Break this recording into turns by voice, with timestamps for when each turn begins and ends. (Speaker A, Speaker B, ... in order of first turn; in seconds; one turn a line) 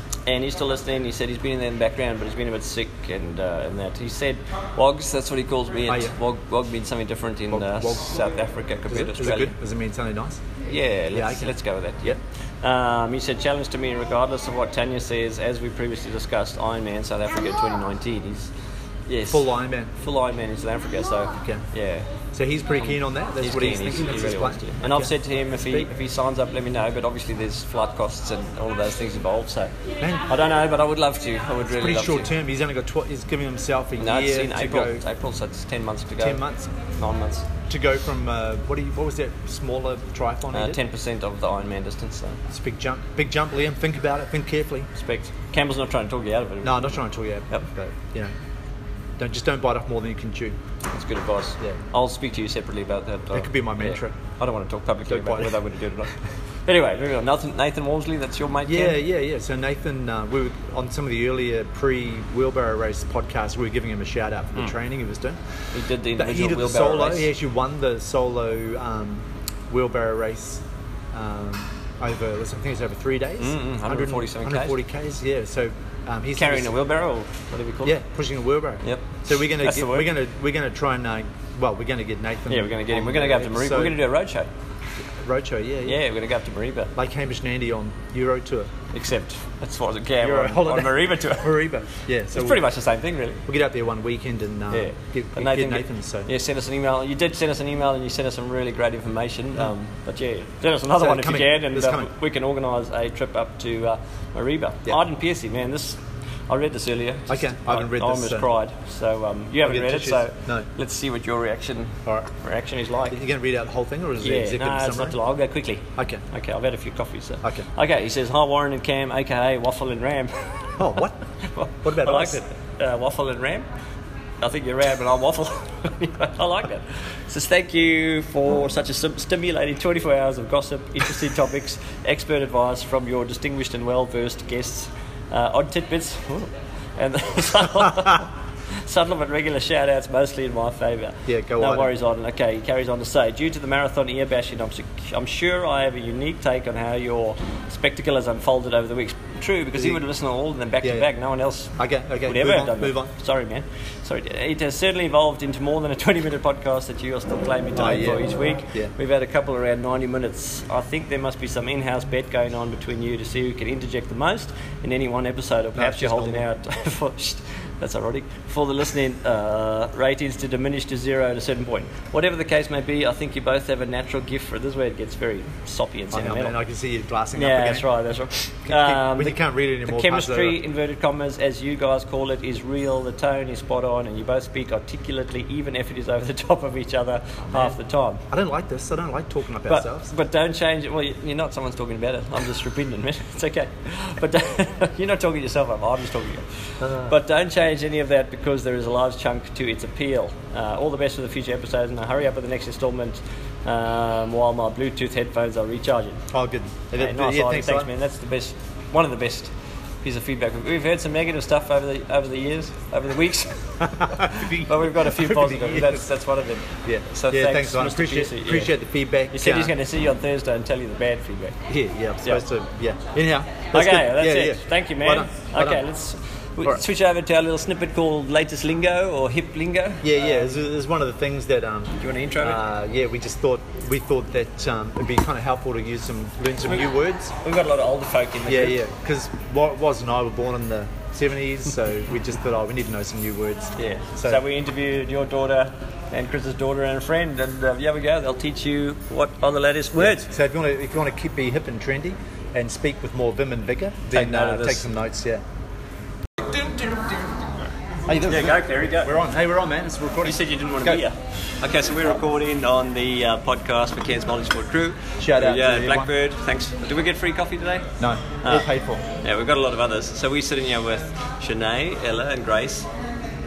Speaker A: 0.2-9.5
Speaker B: 5.9-6.2
Speaker B: 7.5-8.2
Speaker B: 8.9-10.4
Speaker A: 10.7-18.5
Speaker B: 11.1-12.2
Speaker A: 19.1-22.1
Speaker B: 19.3-19.9
Speaker B: 21.4-21.6
Speaker B: 22.3-25.9
Speaker A: 22.7-29.7
Speaker B: 30.0-30.3
Speaker A: 30.3-32.3
Speaker B: 31.7-35.0
Speaker A: 34.0-37.5
Speaker B: 36.2-36.7
Speaker B: 37.7-40.8
Speaker A: 40.5-42.4
Speaker B: 42.5-44.9
Speaker A: 45.0-47.0
Speaker B: 46.6-48.3
Speaker B: 49.2-50.6
Speaker A: 50.9-56.1
Speaker B: 53.3-54.2
Speaker B: 55.0-55.6
Speaker A: 56.6-59.0
Speaker B: 58.6-65.4
Speaker A: 65.7-67.3
Speaker B: 66.1-76.8
Speaker A: 73.4-74.8
Speaker A: 76.3-78.0
Speaker B: 77.8-84.0
Speaker A: 78.8-80.1
Speaker A: 82.5-84.5
Speaker B: 85.2-86.0
Speaker A: 85.8-86.9
Speaker B: 86.9-88.7
Speaker A: 88.9-91.6
Speaker B: 90.2-92.6
Speaker A: 92.3-93.4
Speaker B: 93.5-96.3
Speaker A: 94.7-113.2
Speaker B: 100.9-102.1
Speaker B: 107.3-108.5
Speaker B: 109.6-110.7
Speaker B: 113.0-115.2
Speaker A: 114.2-120.7
Speaker B: 116.0-116.2
Speaker B: 120.8-121.2
Speaker A: 121.5-123.7
Speaker B: 121.8-122.5
Speaker A: 124.4-138.3
Speaker A: 138.8-176.6
Speaker B: 141.2-141.9
Speaker B: 149.7-150.0
Speaker B: 150.8-151.1
Speaker B: 151.8-153.1
Speaker B: 157.7-158.9
Speaker B: 165.7-166.5
Speaker B: 176.1-177.9
Speaker A: 177.3-188.2
Speaker B: 178.7-180.6
Speaker B: 187.5-187.8
Speaker B: 188.3-190.1
Speaker A: 189.7-206.2
Speaker B: 196.8-197.1
Speaker B: 206.3-207.9
Speaker A: 206.9-218.7
Speaker B: 213.8-216.1
Speaker B: 216.8-219.7
Speaker A: 219.3-221.6
Speaker B: 221.7-225.8
Speaker A: 223.7-230.6
Speaker B: 230.0-237.3
Speaker A: 232.0-232.6
Speaker A: 237.4-238.8
Speaker B: 238.5-244.4
Speaker A: 243.8-250.3
Speaker B: 249.9-255.4
Speaker A: 254.1-254.9
Speaker B: 258.1-261.1
Speaker A: 258.2-259.1
Speaker A: 260.2-267.9
Speaker B: 265.2-266.1
Speaker B: 268.0-269.0
Speaker A: 268.4-268.7
Speaker A: 269.2-272.9